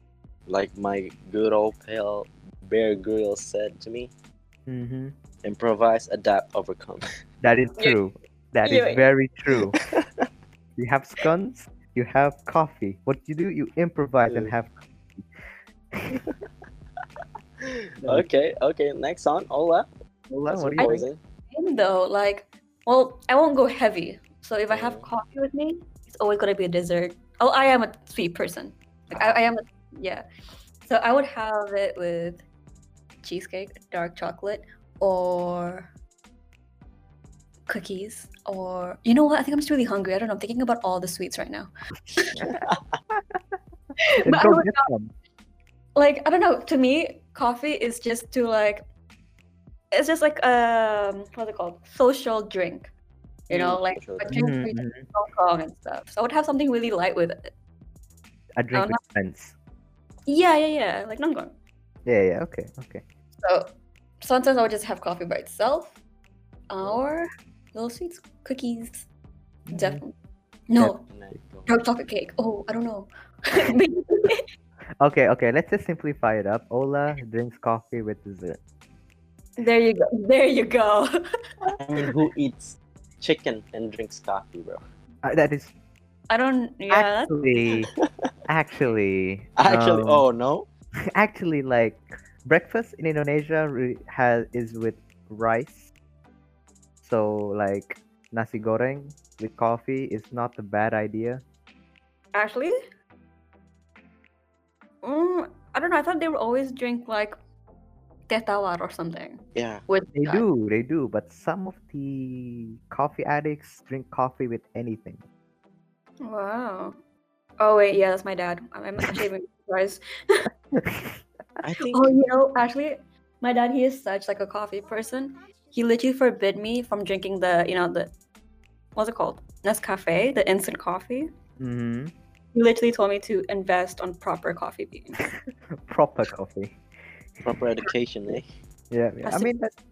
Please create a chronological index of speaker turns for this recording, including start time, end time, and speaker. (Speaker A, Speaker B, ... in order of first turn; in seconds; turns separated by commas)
Speaker A: 0.5-4.1, Speaker B: 4.7-5.1, Speaker A: 5.4-7.0, Speaker B: 7.4-9.8, Speaker C: 8.6-9.0, Speaker B: 10.8-14.7, Speaker A: 14.3-14.5, Speaker A: 17.6-19.9, Speaker B: 20.3-21.0, Speaker A: 20.5-21.2, Speaker C: 20.8-30.2, Speaker A: 24.7-25.1, Speaker A: 29.1-29.4, Speaker C: 30.9-32.4, Speaker C: 33.2-35.9, Speaker C: 37.7-42.4, Speaker A: 42.4-42.8, Speaker C: 44.1-44.9, Speaker B: 44.2-45.1, Speaker C: 46.0-48.9, Speaker C: 49.9-52.9, Speaker C: 53.5-57.5, Speaker A: 53.5-54.4, Speaker B: 54.3-55.0, Speaker B: 58.6-59.5, Speaker C: 60.3-61.5, Speaker B: 62.0-63.0, Speaker C: 63.4-66.0, Speaker C: 66.7-69.1, Speaker B: 69.7-70.0, Speaker C: 69.7-70.1, Speaker C: 70.7-71.0, Speaker B: 70.8-71.4, Speaker A: 71.1-71.8, Speaker C: 71.7-74.4, Speaker B: 75.0-78.6, Speaker C: 79.6-81.2, Speaker A: 81.8-84.8, Speaker B: 85.2-85.7, Speaker C: 86.3-87.3, Speaker B: 86.9-87.9, Speaker B: 88.5-90.2, Speaker A: 89.5-90.7, Speaker B: 91.1-95.9, Speaker B: 97.0-101.4, Speaker C: 102.3-102.8, Speaker C: 105.0-107.4, Speaker C: 108.3-110.5, Speaker A: 109.5-109.8, Speaker B: 110.2-115.2, Speaker C: 116.2-117.0, Speaker C: 117.6-120.5, Speaker B: 120.8-121.2, Speaker A: 121.6-122.1, Speaker C: 121.9-128.1, Speaker C: 129.0-131.3, Speaker B: 131.6-132.1, Speaker C: 132.5-135.2, Speaker B: 135.9-136.8, Speaker A: 137.4-138.5, Speaker B: 138.9-139.7, Speaker C: 139.2-139.5